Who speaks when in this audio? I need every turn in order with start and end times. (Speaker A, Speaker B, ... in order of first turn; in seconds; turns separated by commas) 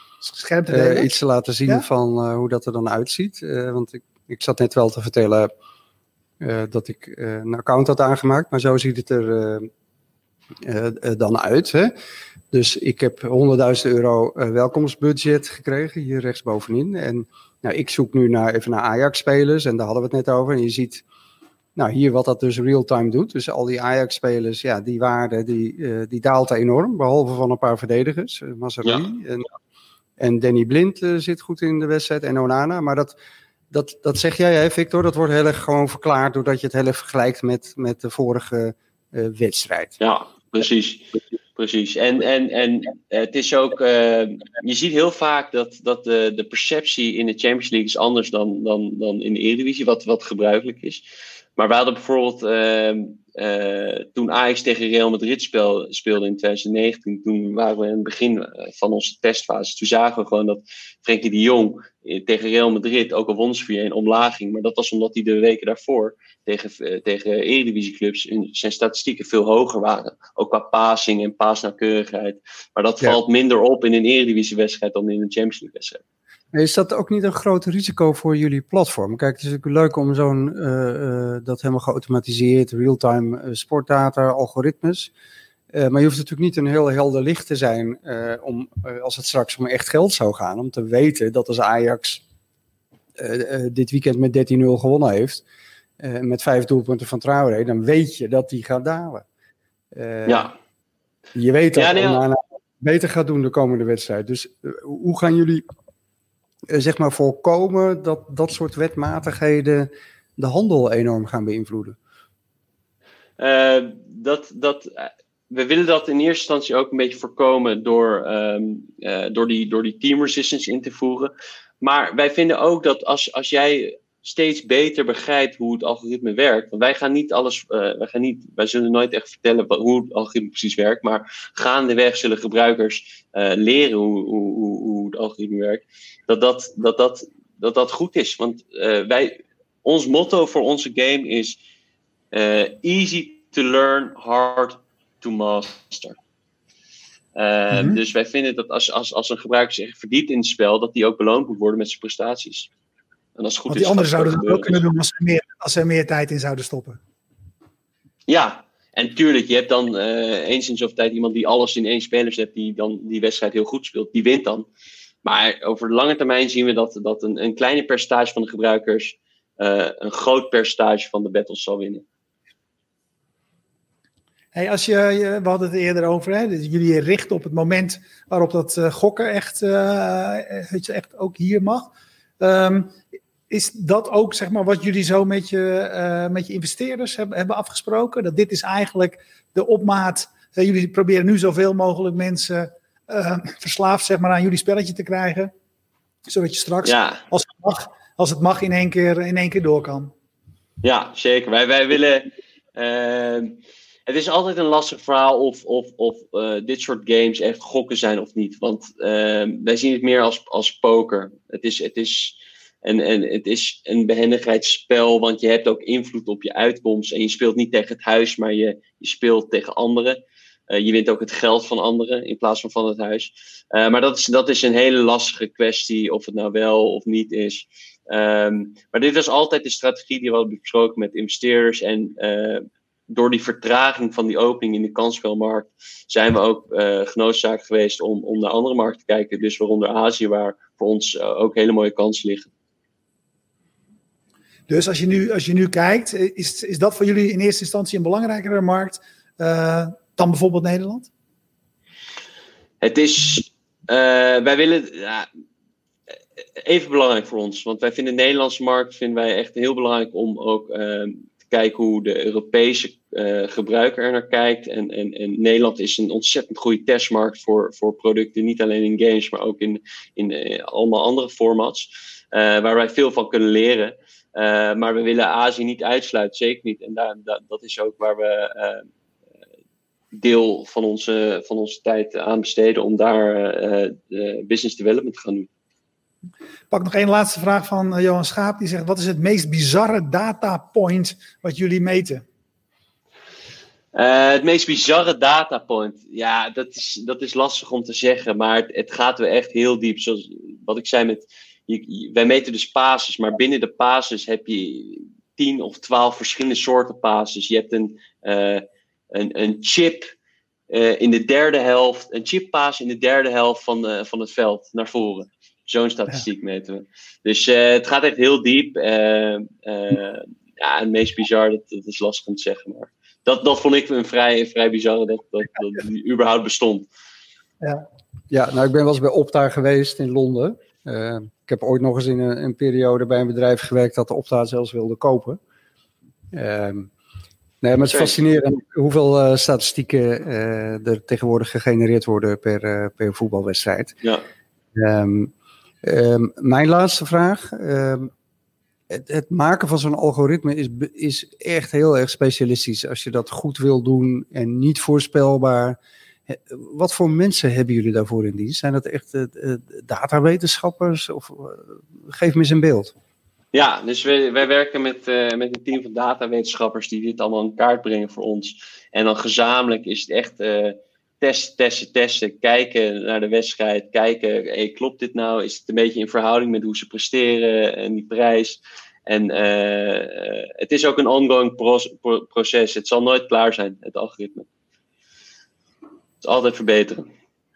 Speaker A: 0.2-1.1, Speaker B: 0.7-5.5, Speaker B: 6.4-9.7, Speaker B: 10.6-11.9, Speaker B: 12.5-21.0, Speaker B: 21.8-29.5, Speaker B: 30.2-33.2, Speaker B: 33.7-40.0, Speaker C: 40.0-51.1, Speaker C: 51.6-76.0, Speaker B: 76.5-85.1, Speaker B: 85.7-92.2, Speaker B: 93.2-95.4, Speaker B: 96.0-99.2, Speaker B: 99.9-100.5, Speaker C: 100.3-100.5, Speaker B: 101.3-105.7, Speaker C: 101.8-102.2, Speaker B: 106.7-112.0, Speaker C: 113.4-141.6, Speaker C: 142.3-146.2, Speaker C: 147.4-152.7, Speaker A: 147.7-148.0, Speaker C: 153.4-154.8, Speaker A: 153.7-157.0, Speaker C: 158.3-164.7, Speaker C: 165.2-172.0, Speaker A: 174.5-195.5, Speaker A: 196.3-200.1, Speaker C: 196.8-197.2, Speaker C: 200.8-242.5, Speaker A: 244.7-251.1, Speaker C: 252.8-255.3, Speaker C: 256.6-278.9, Speaker C: 280.1-285.5, Speaker A: 286.7-292.2, Speaker C: 293.9-310.1, Speaker C: 310.7-326.9, Speaker B: 328.3-335.4, Speaker B: 336.3-336.9, Speaker B: 337.6-344.0, Speaker C: 337.9-338.2, Speaker B: 344.8-345.3, Speaker B: 345.8-348.1, Speaker B: 348.9-362.9, Speaker C: 363.5-384.5, Speaker C: 386.2-387.1